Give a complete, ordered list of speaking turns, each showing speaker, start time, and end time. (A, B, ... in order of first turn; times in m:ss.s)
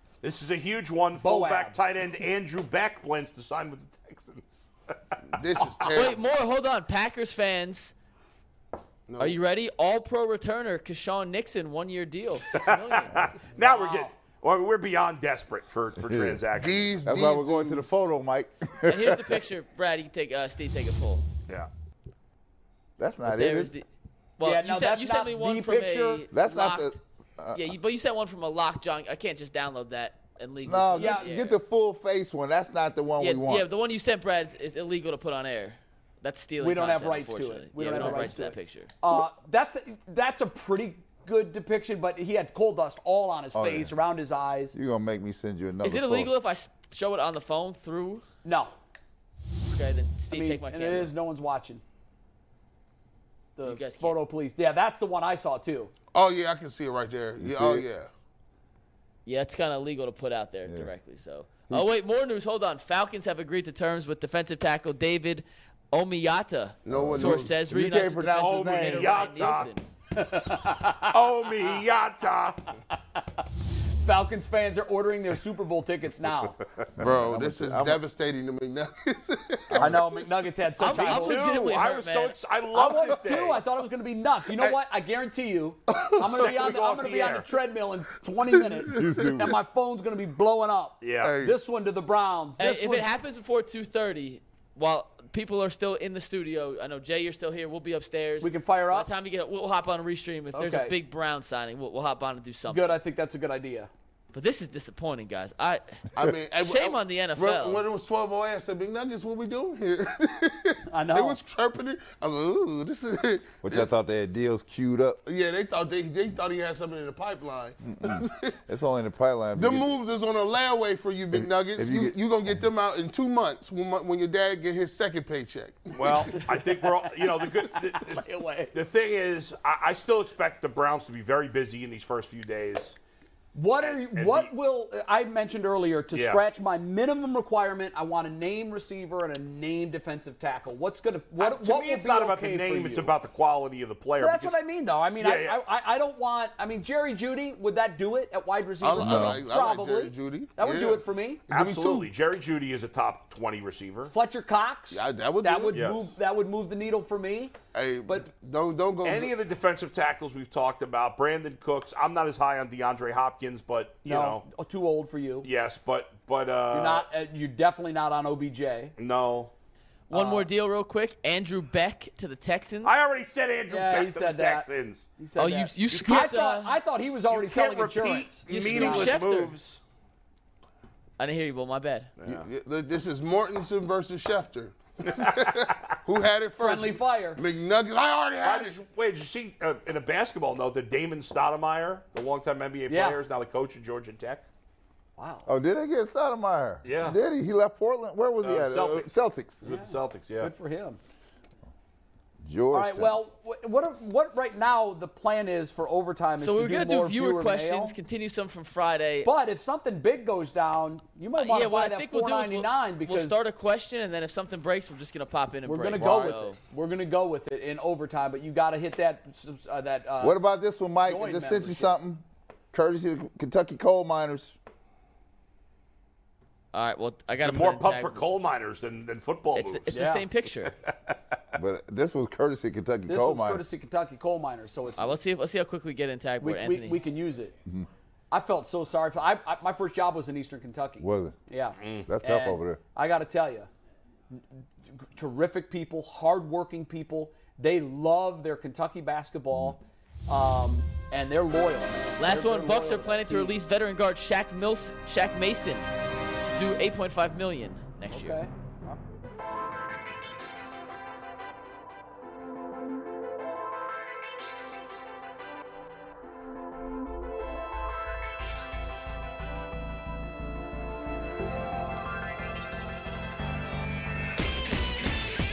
0:00.2-0:05.2 A
0:01.2-0:01.8 B
0:05.3-0:06.3 C
0:05.9-0:07.9 D
0:09.1-0:09.4 C
0:09.2-0:13.3 D
0:12.5-0:16.9 A
0:13.5-0:14.1 B
0:16.0-0:16.4 E
0:16.6-0:17.9 C
0:17.0-0:19.4 E
0:18.8-0:21.2 D
0:23.0-0:23.7 E
0:23.3-0:27.0 D
0:24.4-0:26.2 B
0:26.3-0:27.8 E
0:27.5-0:31.6 D
0:30.6-0:33.7 E
0:30.9-0:31.4 B
0:33.2-0:38.9 D
0:36.6-0:44.8 B
0:37.9-0:38.3 E
0:43.5-0:43.9 E
0:44.7-0:46.3 E
0:45.8-0:48.2 D
0:48.4-0:48.7 B
0:49.7-0:51.1 D
0:50.3-0:51.8 B
0:53.6-0:55.9 B
0:53.6-0:54.2 D
0:56.1-0:58.1 C
0:57.4-0:57.9 E
0:59.3-1:09.8 D
1:06.8-1:07.6 C
1:06.9-1:09.5 E
1:08.4-1:09.7 A
1:10.1-1:11.2 B
1:11.0-1:12.6 A
1:14.0-1:16.6 B
1:17.0-1:18.0 E
1:17.0-1:20.2 C
1:19.7-1:20.0 E
1:19.8-1:21.6 B
1:20.8-1:22.4 D
1:20.9-1:23.6 A
1:22.7-1:33.1 B
1:25.9-1:26.6 C
1:26.2-1:27.5 A
1:28.9-1:29.6 E
1:31.0-1:31.3 A
1:31.2-1:31.6 C
1:32.6-1:43.0 D
1:38.4-1:39.1 B
1:40.5-1:41.0 B
1:42.7-1:43.9 B
1:44.3-1:46.0 D
1:46.2-1:53.9 C
1:46.6-1:47.8 D
1:50.9-1:51.4 B
1:53.6-1:55.2 E
1:55.2-1:58.6 C
1:57.9-2:00.0 E
1:59.6-2:06.4 C
2:01.3-2:02.6 E
2:06.0-2:13.0 A
2:06.3-2:08.7 B
2:13.5-2:23.1 B
2:13.8-2:14.5 A
2:16.1-2:16.4 A
2:21.4-2:24.6 A
2:24.2-2:31.4 B
2:25.2-2:25.6 A
2:28.8-2:32.1 C
2:29.0-2:29.4 E
2:31.5-2:34.1 A
2:34.1-2:37.6 B
2:34.9-2:35.9 C
2:35.7-2:36.1 A
2:37.7-2:39.4 C
2:39.0-2:44.4 A
2:44.0-2:45.5 B
2:45.4-2:47.1 A
2:46.7-2:48.9 B
2:49.0-2:49.5 A
2:50.1-2:52.9 D
2:50.1-2:50.5 B
2:52.8-2:55.1 A
2:53.7-2:54.7 B
2:55.2-2:59.1 B
2:55.4-2:56.8 D
2:57.3-2:59.8 A
2:58.5-2:59.6 D
3:01.2-3:02.1 D
3:02.2-3:02.5 A
3:02.3-3:08.8 C
3:05.1-3:06.0 A
3:06.6-3:07.4 B
3:08.4-3:14.5 A
3:12.9-3:13.2 B
3:15.2-3:15.5 B
3:15.5-3:19.6 E
3:16.8-3:17.2 A
3:18.4-3:19.1 A
3:19.6-3:20.5 A
3:19.6-3:21.0 B
3:22.4-3:23.2 E
3:22.7-3:28.0 B
3:26.4-3:29.3 D
3:29.2-3:33.4 B
3:31.4-3:36.6 D
3:35.6-3:40.4 B
3:40.2-3:44.6 E
3:41.0-3:41.9 B
3:46.7-3:48.2 D
3:47.4-3:49.9 A
3:49.5-3:50.7 D
3:49.9-3:50.3 B
3:51.5-3:53.6 E
3:53.1-3:55.2 B
3:55.0-3:57.0 D
3:56.4-3:57.5 B
3:58.3-4:03.7 B
4:01.0-4:01.4 E
4:01.8-4:02.1 A
4:02.1-4:02.8 E
4:04.9-4:13.6 B
4:12.2-4:15.9 D
4:16.5-4:18.4 D
4:18.1-4:18.5 B